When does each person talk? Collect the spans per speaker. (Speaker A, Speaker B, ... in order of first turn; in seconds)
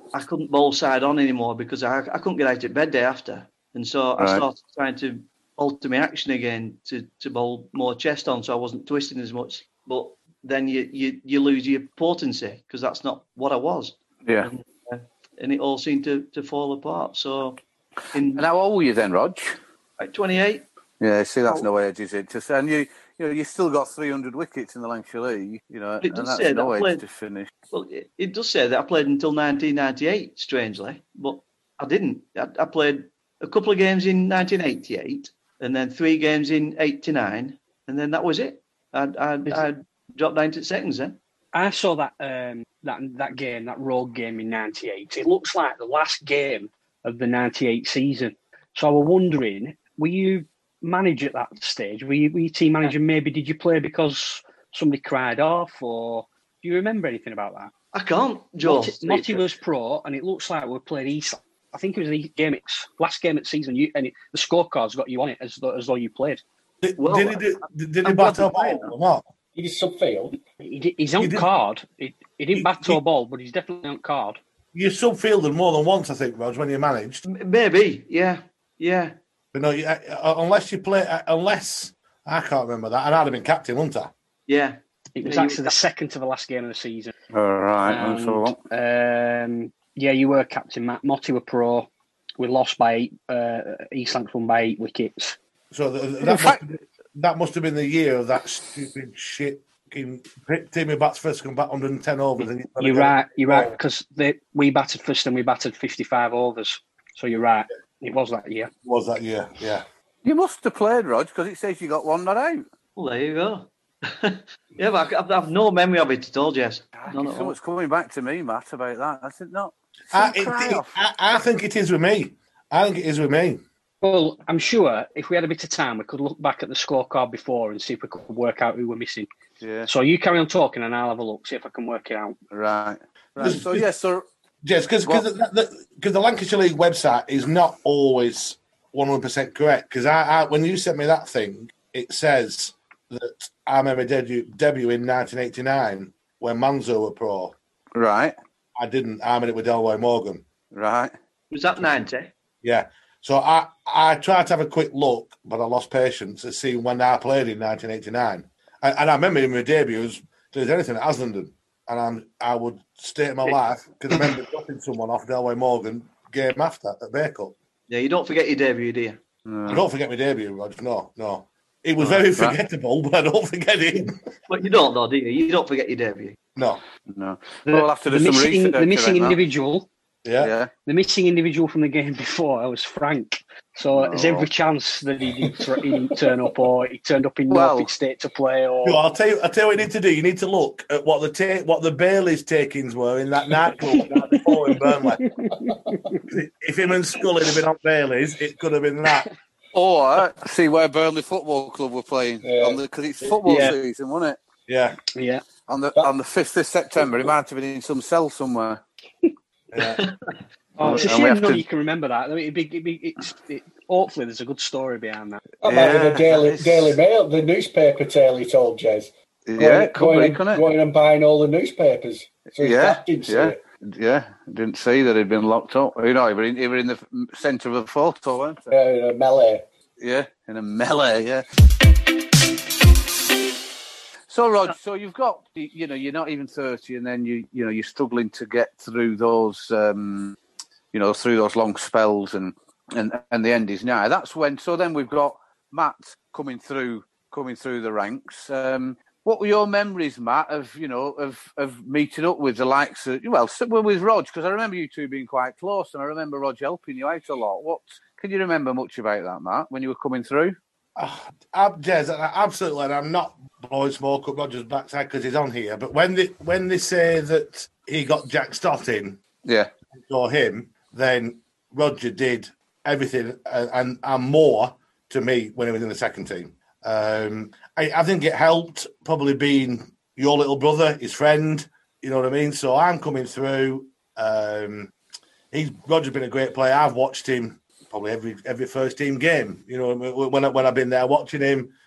Speaker A: 0.1-17.6, 18.1-18.4, 20.0-20.6, 26.0-27.0, 27.7-41.2, 57.9-59.5, 67.0-68.9, 77.3-79.2, 84.5-85.8, 113.0-117.5, 151.5-152.3, 167.9-169.2, 174.5-176.4, 209.8-210.4
Speaker B: 4.2-4.5, 14.3-14.5, 18.3-19.6, 21.0-27.5, 87.3-88.6, 96.3-96.6, 110.2-112.6, 117.0-121.0, 129.6-129.9, 132.5-134.2, 147.9-148.3, 150.7-151.1, 169.5-169.8, 172.0-172.6, 177.1-179.4, 180.4-180.7, 183.9-184.5, 187.5-187.9, 199.7-204.4, 205.7-208.8, 210.8-211.6, 215.6-216.9, 219.5-220.7, 222.6-228.7, 230.0-231.4, 234.3-240.4, 240.9-260.6, 269.4-269.7
Speaker C: 41.5-57.7, 58.6-66.4, 70.6-74.4, 85.2-87.1, 87.8-95.4, 102.8-108.7, 124.0-129.3, 129.9-132.4, 177.7-179.9, 180.9-189.0, 194.8-196.2, 203.5-203.8, 205.2-205.4, 210.8-215.4
Speaker D: 66.8-69.2, 71.2-71.5, 72.6-73.0, 74.7-77.2, 79.5-84.1, 95.7-103.7, 108.8-109.8, 120.1-123.6, 133.4-133.8, 134.6-147.6, 148.8-150.4, 152.6-167.5, 169.7-174.2, 176.6-176.8, 180.2-180.5, 188.8-195.4, 196.3-199.3, 204.7-205.0, 209.7-210.0, 261.0-269.2, 269.9-284.9, 285.5-291.7
Speaker E: 69.5-70.4, 202.4-202.8, 215.6-223.6, 228.7-229.6